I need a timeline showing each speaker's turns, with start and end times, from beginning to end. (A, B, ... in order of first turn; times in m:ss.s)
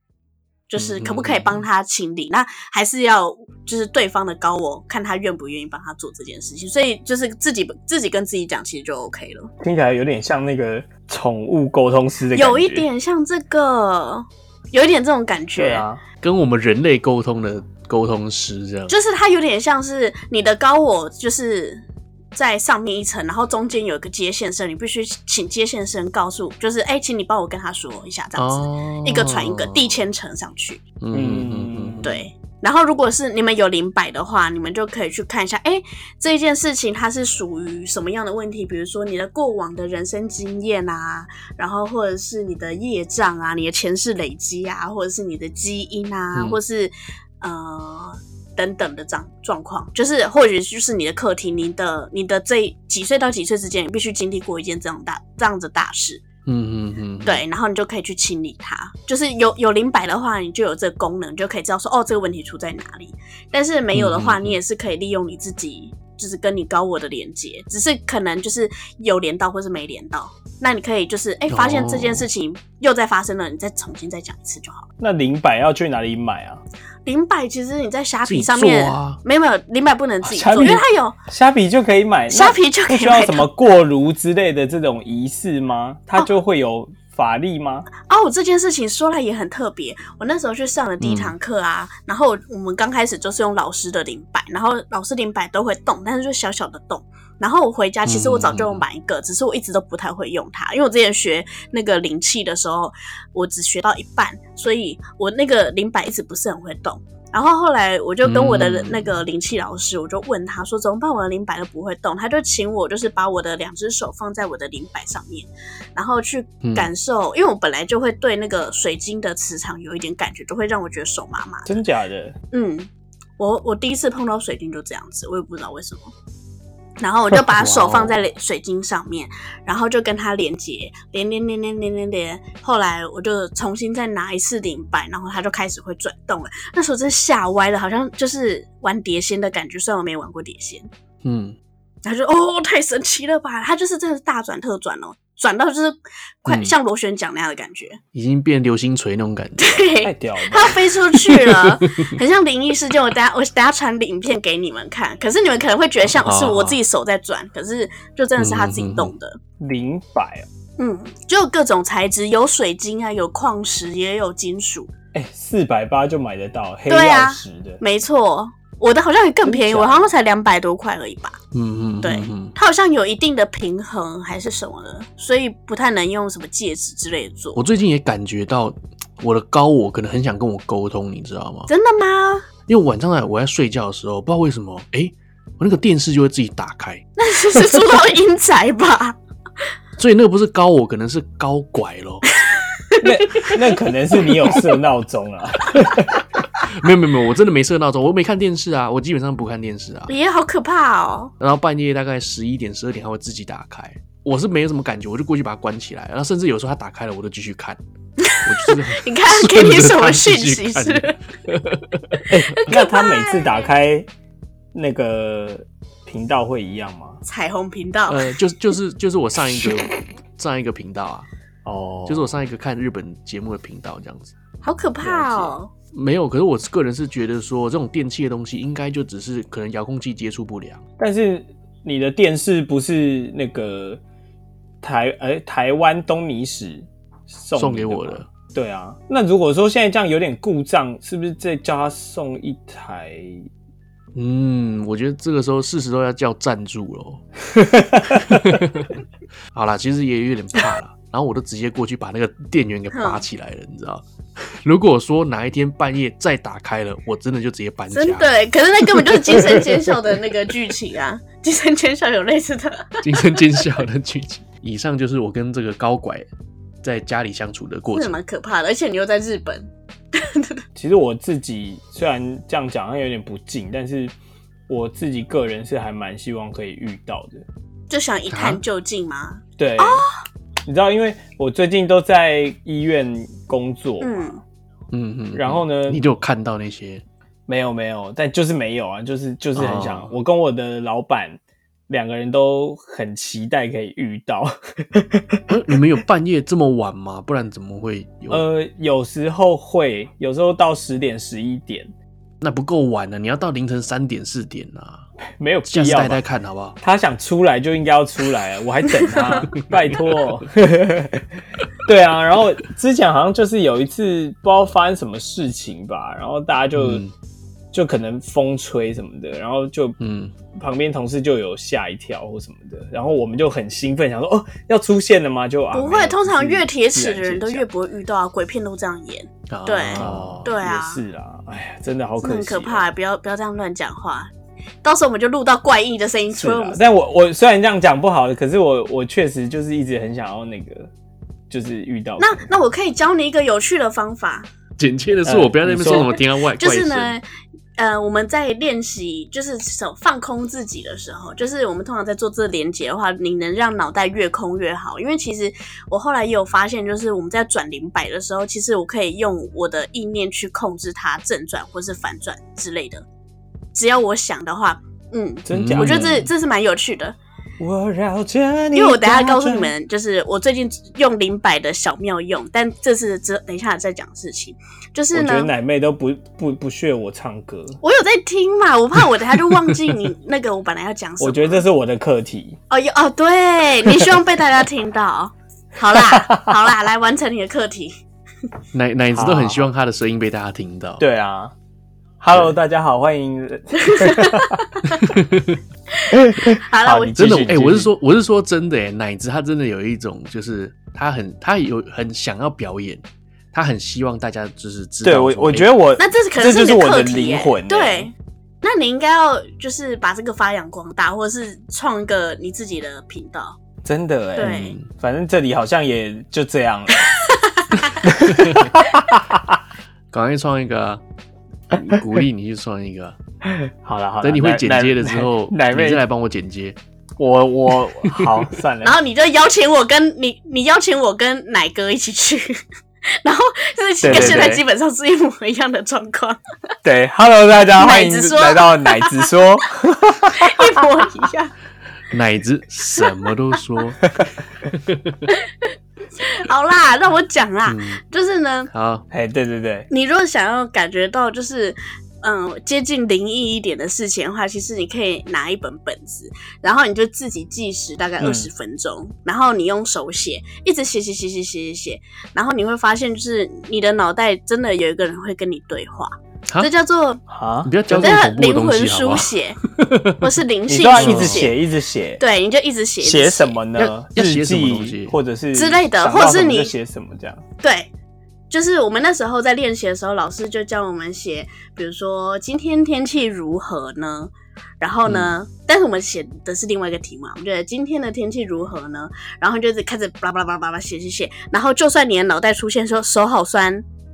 0:00.7-0:09.5 A
0:00.8-0:01.6 B
0:09.6-0:12.9 C
0:12.3-0:15.8 A
0:15.6-0:16.0 C
0:16.2-0:19.0 B
0:18.9-0:21.8 A
0:22.4-0:30.8 A
0:28.4-0:29.9 B
0:31.0-0:32.3 B
0:31.1-0:32.0 C
0:32.0-0:56.2 A
0:46.3-0:46.6 B
0:56.5-0:57.4 B
0:57.2-1:14.9 A
1:03.9-1:04.6 B
1:11.5-1:12.3 B
1:15.0-1:16.6 C
1:17.1-1:21.2 A
1:18.2-1:19.2 B
1:20.2-1:27.9 C
1:22.3-1:23.5 A
1:28.0-2:01.7 A
1:31.0-1:31.3 B
1:38.0-1:38.8 B
1:48.2-1:49.2 B
1:56.6-1:56.9 B
2:01.7-2:02.4 C
2:02.5-2:06.1 A
2:07.0-2:20.9 A
2:07.5-2:08.2 B
2:21.2-2:21.6 B
2:22.0-2:28.0 A
2:26.5-2:26.7 B
2:28.1-2:29.8 B
2:29.6-2:39.4 A
2:30.0-2:30.8 C
2:31.8-2:32.1 B
2:36.0-2:36.8 B
2:38.4-2:39.1 B
2:39.6-2:40.5 C
2:40.8-2:44.9 A
2:45.1-2:47.8 C
2:46.9-2:51.4 A
2:49.4-2:50.1 C
2:51.5-2:52.5 B
2:52.0-2:57.6 A
2:57.6-3:01.7 B
3:01.7-3:02.5 A
3:02.7-3:07.0 B
3:07.2-3:09.2 A
3:10.0-3:12.2 B
3:12.4-3:13.8 A
3:13.0-3:16.2 C
3:16.6-3:20.1 B
3:20.1-3:21.3 A
3:21.4-3:27.8 B
3:28.2-3:31.2 A
3:28.4-3:32.2 B
3:32.3-3:34.1 C
3:32.6-3:33.7 A
3:34.7-3:37.2 C
3:37.3-3:38.3 A
3:38.1-3:41.3 B
3:41.6-3:42.3 C
3:42.1-3:44.3 B
3:44.6-3:45.7 A
3:45.0-3:50.8 B
3:51.0-3:54.0 C
3:54.8-4:03.5 C
3:57.6-3:58.3 B
4:04.2-4:07.2 B
4:07.5-4:08.4 C
4:08.1-4:08.9 B
4:09.5-4:18.3 B
4:12.9-4:13.2 A
4:17.9-4:23.6 A
4:23.0-4:26.3 B
4:26.8-4:28.2 B
4:27.9-4:30.6 A
4:30.8-4:34.1 C
4:34.7-4:37.5 C
4:37.9-4:40.1 A
4:38.3-4:38.6 B
4:39.6-4:40.1 C
4:40.6-4:44.3 C
4:44.0-4:44.4 A
4:44.9-4:47.0 B
4:45.3-4:46.0 C
4:47.5-4:55.4 C
4:49.6-4:50.1 B
4:55.5-4:58.4 B
4:58.3-5:01.9 C
5:02.4-5:05.1 B
5:05.4-5:06.2 C
5:05.7-5:06.8 B
5:06.8-5:17.0 C
5:16.8-5:17.1 B
5:17.7-5:20.0 C
5:20.0-5:20.3 B
5:20.5-5:27.7 C
5:25.7-5:31.0 A
5:29.5-5:30.5 B
5:29.9-5:32.9 C
5:32.2-5:34.3 A
5:34.8-5:36.8 A
5:36.3-5:40.9 C
5:41.5-5:42.5 C
5:42.2-5:44.5 A
5:44.8-5:47.2 B
5:45.2-5:46.2 C
5:46.6-5:47.2 A
5:47.8-6:03.0 A
6:03.7-6:07.2 A
6:05.5-6:06.2 C
6:05.5-6:06.3 B
6:07.6-6:09.7 C
6:08.7-6:15.5 A
6:15.1-6:17.8 C
6:17.8-6:21.7 A
6:21.2-6:22.6 C
6:22.7-6:28.0 A
6:25.9-6:26.6 C
6:28.7-6:31.0 B
6:29.1-6:29.7 C
6:31.0-6:31.5 C
6:32.2-6:34.6 C
6:33.8-6:35.0 A
6:34.9-6:35.6 B
6:35.9-6:37.2 A
6:36.1-6:37.9 C
6:37.2-6:45.8 B
6:45.0-6:48.1 C
6:46.0-6:53.6 A
6:53.8-6:57.1 C
6:54.4-6:54.8 A
6:54.4-6:54.9 B
6:57.2-6:58.0 A
6:58.0-6:59.4 C
6:58.3-6:58.7 B
7:00.1-7:01.0 B
7:01.7-7:03.2 B
7:03.4-7:06.0 C
7:04.2-7:06.8 B
7:07.2-7:09.0 C
7:08.8-7:12.6 A
7:13.2-7:16.4 A
7:14.0-7:14.6 C
7:14.1-7:14.5 B
7:16.8-7:20.7 C
7:17.8-7:19.3 A
7:20.3-7:21.5 A
7:22.1-7:24.1 B
7:24.7-7:25.2 B
7:25.3-7:25.7 A
7:26.2-7:28.7 A
7:27.6-7:28.0 B
7:28.7-7:29.1 B
7:29.1-7:29.9 C
7:29.9-7:47.2 A
7:38.2-7:38.5 C
7:47.3-7:47.7 C
7:47.6-7:50.3 B
7:47.9-7:49.6 A
7:50.2-7:51.6 A
7:50.7-7:52.2 C
7:51.0-7:51.5 B
7:52.2-7:53.6 A
7:53.0-7:57.4 C
7:53.8-7:55.2 B
7:55.5-7:56.7 A
7:57.6-7:57.9 A
7:58.5-8:13.8 A
8:05.0-8:05.3 B